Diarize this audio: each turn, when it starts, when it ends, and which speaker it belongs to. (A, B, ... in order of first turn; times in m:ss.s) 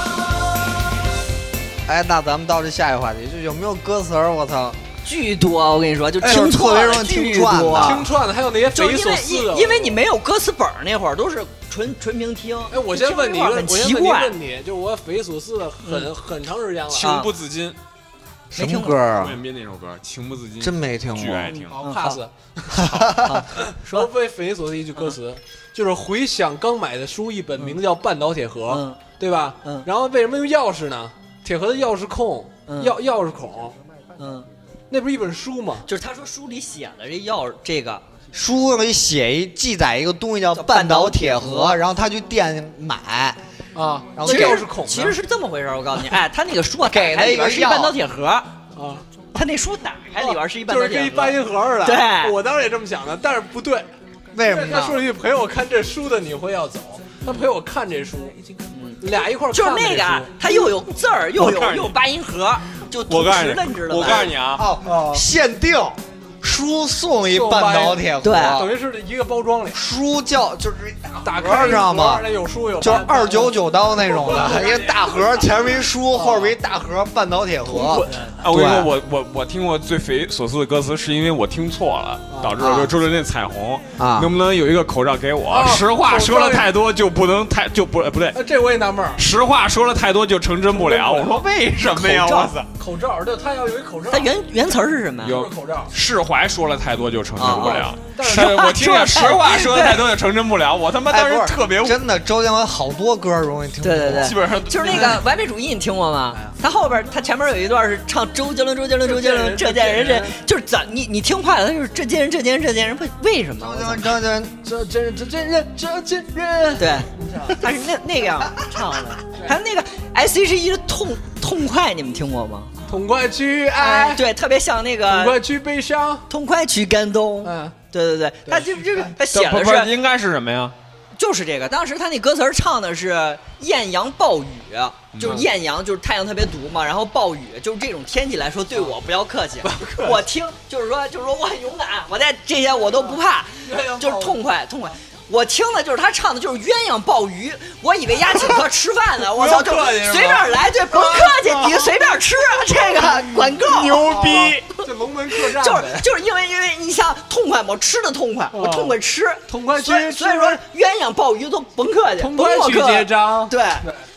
0:01.9-0:04.8 A
0:05.0-0:08.0 B
0:06.2-0:08.1 A
0:07.8-0:10.0 C
0:08.7-0:14.4 B
0:12.7-0:17.2 C
0:15.8-0:16.1 B
0:16.9-0:17.8 D
0:16.9-0:17.3 B
0:18.5-0:19.0 B
0:18.5-0:19.4 A
0:19.2-0:21.8 D
0:20.6-0:21.6 A
0:21.5-0:22.2 B
0:21.7-0:22.8 C
0:22.7-0:23.4 A
0:23.2-0:24.1 B
0:23.8-0:33.8 C
0:28.7-0:29.0 B
0:32.7-0:33.0 B
0:34.2-0:34.5 B
0:34.9-0:35.8 C
0:35.9-0:38.0 B
0:38.3-0:43.4 A
0:40.5-0:41.8 B
0:43.8-0:45.2 C
0:44.1-0:44.7 A
0:44.2-0:48.5 B
0:46.9-0:48.0 A
0:48.8-0:49.0 C
0:49.4-0:52.4 B
0:50.2-0:53.9 C
0:54.3-0:55.1 A
0:54.4-0:58.4 C
0:58.7-1:04.3 B
0:59.0-1:00.6 C
1:01.4-1:02.0 D
1:03.1-1:04.7 D
1:04.6-1:08.8 A
1:04.8-1:05.2 C
1:07.3-1:09.8 C
1:08.2-1:08.6 B
1:09.7-1:12.2 A
1:11.2-1:15.5 C
1:12.8-1:18.9 A
1:16.1-1:16.6 C
1:17.7-1:18.3 C
1:18.4-1:28.4 D
1:22.3-1:22.8 C
1:22.6-1:22.9 A
1:24.0-1:24.3 A
1:25.5-1:26.7 C
1:28.3-1:29.2 C
1:29.2-1:32.7 D
1:30.7-1:31.5 C
1:31.8-1:32.5 B
1:32.8-1:34.3 C
1:34.1-1:35.4 B
1:35.2-1:35.9 C
1:35.2-1:42.0 D
1:37.4-1:40.1 B
1:37.4-1:39.2 C
1:41.1-1:44.4 A
1:43.8-1:54.2 B
1:44.2-1:45.2 D
1:44.8-1:45.2 C
1:49.0-1:50.4 C
1:53.6-1:54.7 A
1:54.6-1:57.6 C
1:56.8-2:02.7 B
2:02.9-2:04.2 C
2:03.8-2:05.4 B
2:05.0-2:06.2 C
2:06.3-2:09.9 B
2:07.4-2:07.8 C
2:08.5-2:09.0 C
2:09.3-2:10.8 D
2:11.2-2:34.2 B
2:15.1-2:15.4 D
2:19.6-2:20.2 C
2:23.7-2:24.4 C
2:29.3-2:31.3 C
2:33.6-2:34.6 D
2:34.0-2:36.1 C
2:35.4-2:43.8 B
2:38.5-2:40.6 C
2:42.2-2:44.0 C